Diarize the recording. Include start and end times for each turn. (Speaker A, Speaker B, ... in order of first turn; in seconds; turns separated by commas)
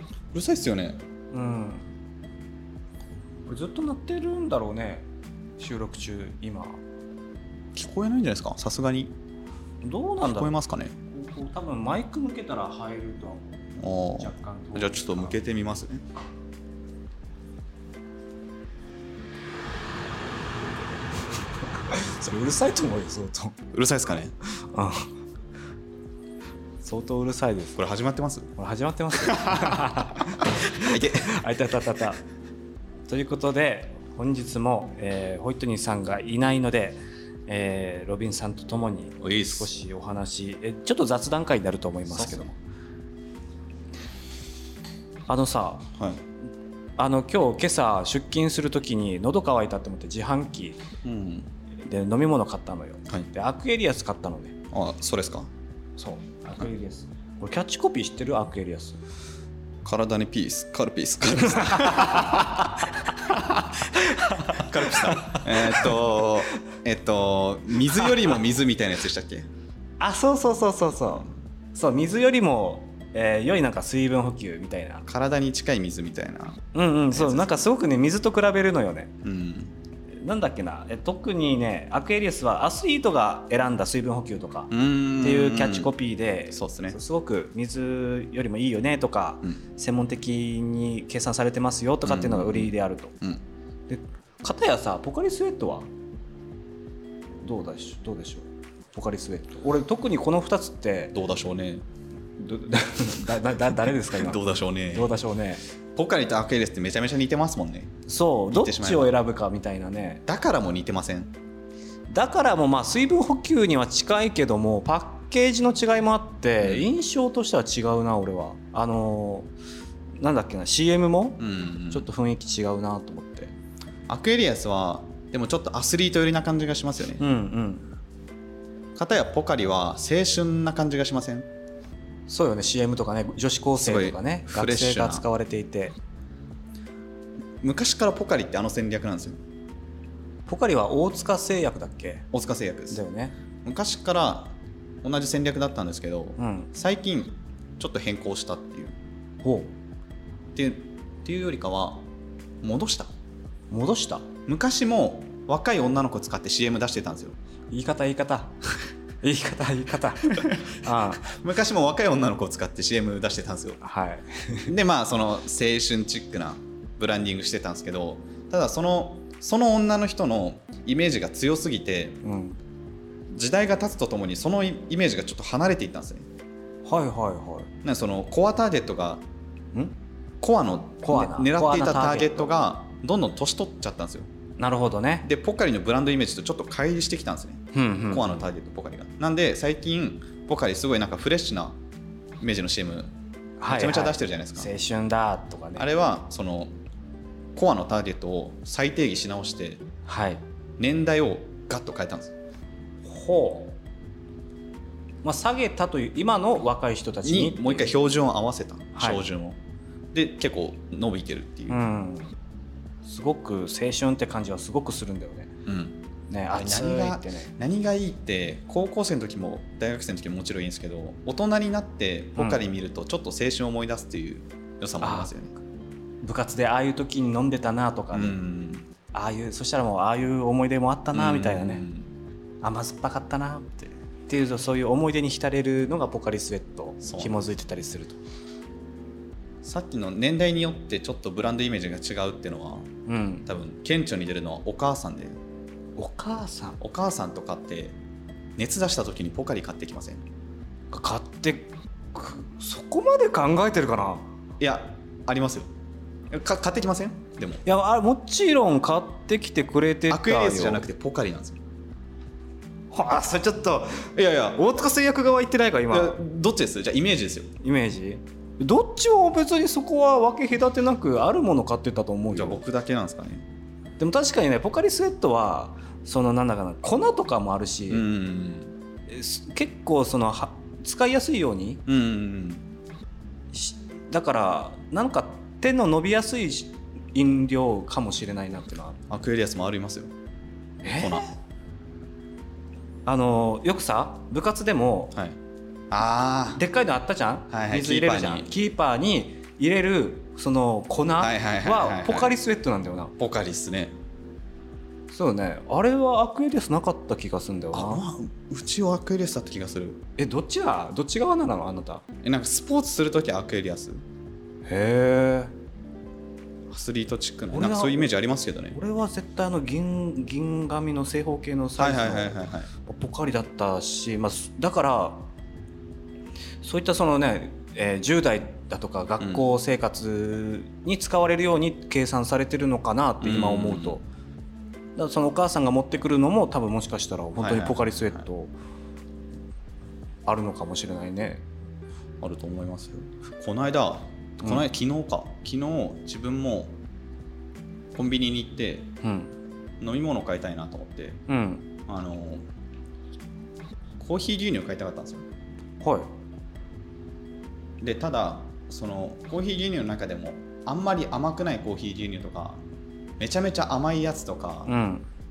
Speaker A: 0.3-1.0, Speaker B: 1.3-1.9, Speaker B: 3.5-5.0, Speaker B: 5.6-6.8, Speaker A: 7.8-9.1, Speaker B: 9.8-15.4, Speaker A: 10.2-10.9, Speaker A: 13.8-16.0, Speaker B: 21.9-23.6, Speaker A: 23.7-24.3, Speaker B: 24.6-25.1, Speaker B: 26.8-27.8, Speaker A: 27.8-28.5, Speaker B: 28.6-32.2, Speaker A: 29.3-29.8, Speaker A: 30.8-31.3, Speaker B: 33.1-42.5, Speaker A: 39.2-39.7, Speaker A: 42.1-42.5, Speaker B: 45.3-45.9, Speaker A: 46.0-46.2, Speaker B: 47.0-50.8, Speaker A: 51.0-51.5, Speaker B: 51.8-54.5, Speaker A: 54.7-55.5, Speaker B: 56.0-59.0, Speaker A: 59.8-62.5, Speaker B: 61.5-65.9, Speaker A: 64.5-69.5, Speaker B: 70.0-75.0, Speaker A: 75.1-77.6, Speaker B: 76.7-79.1, Speaker A: 79.2-79.7, Speaker B: 80.2-93.1, Speaker A: 84.7-85.9, Speaker A: 86.5-87.0, Speaker A: 92.0-93.4, Speaker B: 93.9-95.9, Speaker B: 97.4-101.1, Speaker A: 101.1-101.8, Speaker B: 102.4-105.6, Speaker A: 104.1-105.2, Speaker A: 106.0-107.9, Speaker B: 108.1-110.2, Speaker A: 108.5-109.1, Speaker A: 110.2-111.3, Speaker B: 112.1-119.5, Speaker A: 116.6-116.9, Speaker B: 120.2-123.5, Speaker A: 121.4-122.1, Speaker A: 124.1-127.2, Speaker B: 127.2-127.9, Speaker A: 129.0-131.5, Speaker B: 132.3-136.0, Speaker A: 133.8-135.2, Speaker A: 137.6-139.4, Speaker B: 140.5-142.2, Speaker A: 142.3-143.0, Speaker B: 142.9-143.3, Speaker A: 143.7-149.0, Speaker B: 146.4-146.7, Speaker B: 149.4-149.7, Speaker A: 150.6-152.1, Speaker A: 152.6-153.1, Speaker B: 153.7-154.3, Speaker A: 154.5-157.3, Speaker B: 157.7-158.6, Speaker B: 159.2-161.3, Speaker A: 161.2-163.8, Speaker B: 163.8-164.7, Speaker A: 164.7-172.2, Speaker B: 172.2-172.6, Speaker A: 173.3-176.2, Speaker B: 176.8-177.7, Speaker A: 177.8-179.2, Speaker A: 180.4-184.3, Speaker B: 181.0-182.5, Speaker B: 184.6-185.3, Speaker A: 185.2-191.8, Speaker B: 187.7-188.4, Speaker A: 192.4-193.1, Speaker B: 193.6-195.9, Speaker A: 193.7-194.7, Speaker A: 195.8-196.7, Speaker A: 197.6-199.8, Speaker B: 200.1-200.4, Speaker A: 200.8-202.3, Speaker B: 203.1-203.8, Speaker B: 205.2-207.9, Speaker A: 207.2-209.6, Speaker B: 209.0-209.2, Speaker A: 210.1-211.8, Speaker B: 211.7-212.3, Speaker B: 213.1-215.5, Speaker A: 215.7-225.6, Speaker B: 216.3-217.5, Speaker B: 222.3-222.6, Speaker B: 225.0-225.3, Speaker B: 226.2-228.4, Speaker A: 228.1-228.9, Speaker B: 229.1-231.8, Speaker A: 231.1-232.1, Speaker B: 232.6-238.2, Speaker A: 237.0-237.5, Speaker A: 239.6-242.9, Speaker B: 243.1-243.5, Speaker A: 243.5-245.4, Speaker B: 246.0-246.8, Speaker A: 246.8-248.0, Speaker A: 248.6-250.2, Speaker B: 250.9-254.3, Speaker A: 254.6-255.7, Speaker A: 256.3-257.6, Speaker B: 257.6-260.9, Speaker A: 260.1-261.6, Speaker B: 262.9-266.2, Speaker A: 264.1-264.6, Speaker A: 265.9-267.5, Speaker B: 267.6-272.6, Speaker A: 272.3-273.4, Speaker B: 274.0-278.1, Speaker A: 277.9-278.7, Speaker B: 279.1-281.8, Speaker A: 281.9-282.6, Speaker B: 283.5-289.0, Speaker A: 289.1-290.1, Speaker B: 290.8-291.3, Speaker A: 290.9-291.3, Speaker B: 293.1-295.1, Speaker A: 295.1-295.4, Speaker A: 295.9-296.6, Speaker B: 296.5-303.1, Speaker A: 297.5-298.5, Speaker A: 301.2-302.4, Speaker A: 303.2-303.9, Speaker B: 305.1-308.0, Speaker A: 307.7-310.0, Speaker B: 310.2-312.0, Speaker A: 312.2-314.0, Speaker B: 314.7-315.5, Speaker A: 316.7-318.8, Speaker B: 317.5-318.1, Speaker B: 318.7-325.2, Speaker A: 321.8-322.7, Speaker B: 326.6-334.0, Speaker A: 329.2-329.5, Speaker A: 333.2-334.0, Speaker B: 334.9-338.5, Speaker A: 337.4-338.2, Speaker B: 340.2-341.4, Speaker A: 342.2-346.8, Speaker A: 347.9-348.9, Speaker B: 349.0-349.3, Speaker A: 349.8-351.2, Speaker B: 351.3-351.7, Speaker A: 351.9-352.4, Speaker A: 354.0-355.2, Speaker B: 355.8-356.1, Speaker A: 357.8-362.6, Speaker A: 363.2-364.8, Speaker B: 364.7-365.1